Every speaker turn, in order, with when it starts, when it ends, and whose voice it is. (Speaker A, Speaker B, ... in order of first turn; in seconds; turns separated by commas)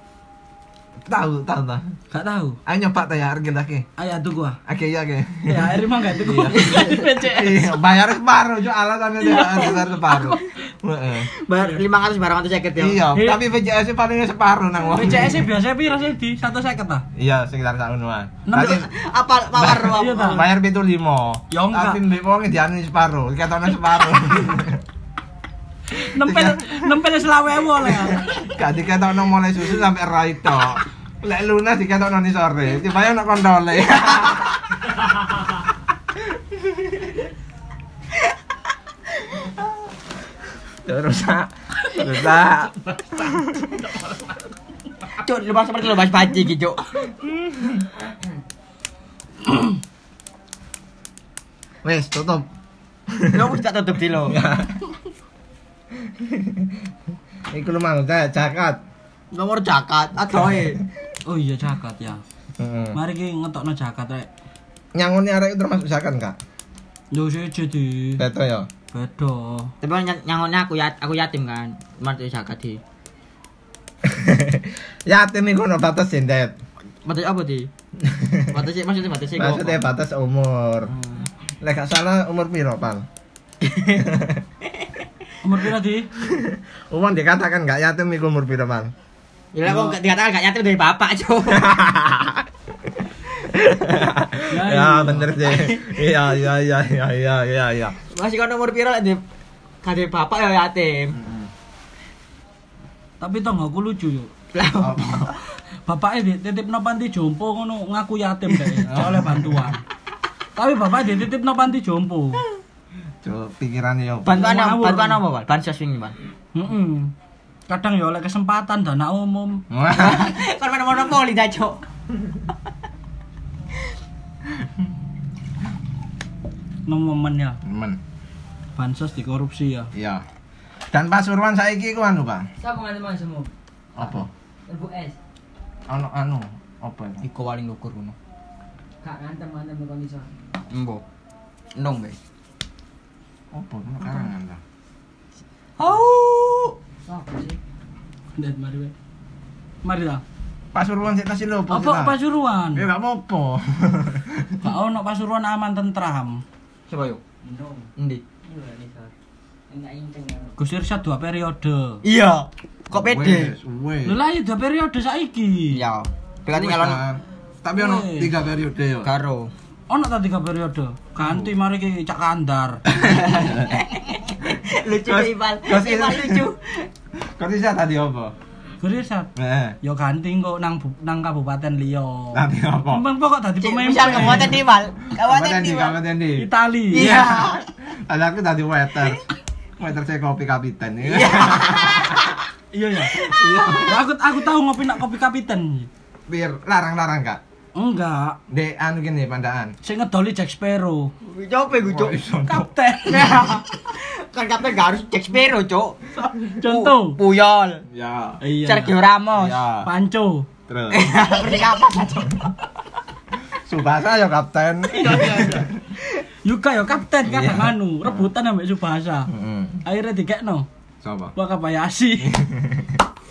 Speaker A: 1.1-1.9, Speaker B: 2.1-2.6, Speaker A: 2.7-3.9, Speaker B: 4.0-4.6, Speaker A: 4.7-11.3, Speaker B: 5.5-7.8, Speaker B: 9.2-10.4, Speaker C: 11.3-13.0, Speaker A: 12.8-15.5, Speaker B: 13.1-13.4, Speaker B: 14.9-17.1, Speaker A: 17.2-18.9, Speaker B: 18.5-18.8, Speaker C: 18.5-20.5, Speaker A: 19.6-24.8, Speaker B: 19.9-20.5, Speaker B: 21.5-22.0, Speaker B: 25.9-28.4, Speaker A: 26.2-26.9, Speaker A: 27.8-34.9, Speaker A: 36.3-37.0, Speaker A: 40.9-43.7, Speaker C: 45.2-46.8, Speaker A: 47.1-47.8, Speaker A: 51.8-52.5, Speaker A: 53.1-53.5, Speaker C: 53.3-54.4, Speaker A: 54.3-54.8, Speaker A: 56.0-56.8, Speaker A: 57.5-58.8, Speaker C: 59.3-60.8, Speaker B: 61.3-62.2, Speaker A: 62.6-63.0, Speaker B: 62.9-64.3, Speaker A: 65.0-66.4, Speaker B: 67.1-68.2, Speaker A: 68.2-68.7, Speaker B: 68.9-69.7, Speaker C: 69.8-72.8, Speaker A: 74.0-76.5, Speaker C: 77.0-77.7, Speaker A: 78.0-78.6, Speaker C: 78.5-79.8, Speaker A: 79.4-80.9, Speaker A: 81.6-83.1, Speaker C: 83.6-84.1, Speaker A: 84.0-84.4, Speaker B: 85.4-86.1, Speaker A: 86.2-88.9, Speaker C: 89.5-91.7, Speaker B: 89.7-90.0, Speaker A: 91.5-92.5, Speaker A: 93.4-98.0, Speaker B: 94.5-95.5, Speaker C: 95.5-95.8, Speaker C: 98.1-99.2, Speaker C: 99.8-101.2, Speaker A: 101.1-101.5, Speaker B: 103.2-104.3, Speaker C: 104.5-105.2, Speaker A: 104.8-105.4, Speaker B: 105.9-109.8, Speaker A: 108.9-109.7, Speaker B: 110.6-112.4, Speaker A: 113.2-114.5, Speaker C: 114.2-116.2, Speaker B: 114.3-115.2, Speaker B: 116.5-117.1, Speaker B: 117.7-119.6, Speaker A: 119.7-120.4, Speaker C: 120.0-121.8, Speaker B: 126.9-127.6, Speaker A: 127.6-128.0, Speaker B: 128.8-129.9, Speaker A: 129.9-130.2, Speaker A: 130.9-132.5, Speaker D: 132.6-133.5, Speaker A: 134.0-134.3, Speaker D: 134.7-135.2, Speaker A: 135.9-137.2, Speaker C: 137.2-138.2, Speaker D: 139.0-140.3, Speaker C: 140.7-141.0, Speaker C: 141.8-142.2, Speaker A: 143.5-144.6, Speaker C: 145.8-146.8, Speaker D: 147.1-147.6, Speaker B: 148.3-148.9, Speaker B: 149.8-150.2, Speaker A: 150.7-152.2, Speaker B: 151.7-152.9, Speaker A: 152.7-154.6, Speaker B: 154.6-156.4, Speaker C: 156.9-157.2, Speaker D: 157.4-157.9, Speaker C: 158.0-158.2, Speaker D: 158.4-159.1, Speaker D: 159.7-160.6, Speaker B: 160.6-162.0, Speaker C: 162.0-163.5, Speaker A: 162.9-164.2, Speaker B: 164.0-165.8, Speaker C: 165.7-167.0, Speaker A: 166.5-169.1, Speaker B: 167.8-168.3, Speaker C: 169.0-169.5, Speaker B: 169.9-172.8, Speaker A: 171.3-171.5, Speaker A: 172.9-173.8, Speaker C: 173.4-176.9, Speaker A: 175.1-176.5, Speaker A: 177.4-178.3, Speaker B: 178.8-179.3, Speaker A: 179.4-179.8, Speaker B: 179.8-184.6, Speaker A: 182.3-183.1, Speaker C: 183.6-186.0, Speaker A: 184.1-184.5, Speaker A: 185.2-189.2, Speaker B: 186.4-187.2, Speaker C: 186.9-187.7, Speaker A: 189.8-192.4, Speaker C: 191.1-192.2, Speaker B: 192.7-195.9, Speaker A: 193.2-194.0, Speaker A: 196.3-197.4, Speaker B: 197.8-198.4, Speaker A: 198.5-199.7, Speaker B: 199.8-201.1, Speaker C: 201.2-202.2, Speaker A: 201.8-202.7, Speaker B: 202.5-203.6, Speaker C: 203.1-206.0, Speaker B: 206.2-207.2, Speaker C: 206.6-207.8, Speaker A: 207.9-208.4, Speaker B: 208.4-209.0, Speaker C: 208.6-209.6, Speaker A: 209.4-209.9, Speaker B: 209.8-210.5, Speaker A: 210.7-211.1, Speaker C: 210.9-212.5, Speaker A: 213.6-215.7, Speaker B: 214.9-215.7, Speaker C: 215.0-215.5, Speaker B: 216.4-219.3, Speaker A: 217.2-218.2, Speaker A: 219.3-219.8, Speaker B: 219.8-220.7, Speaker A: 221.0-221.3, Speaker B: 221.4-222.4, Speaker A: 222.2-223.0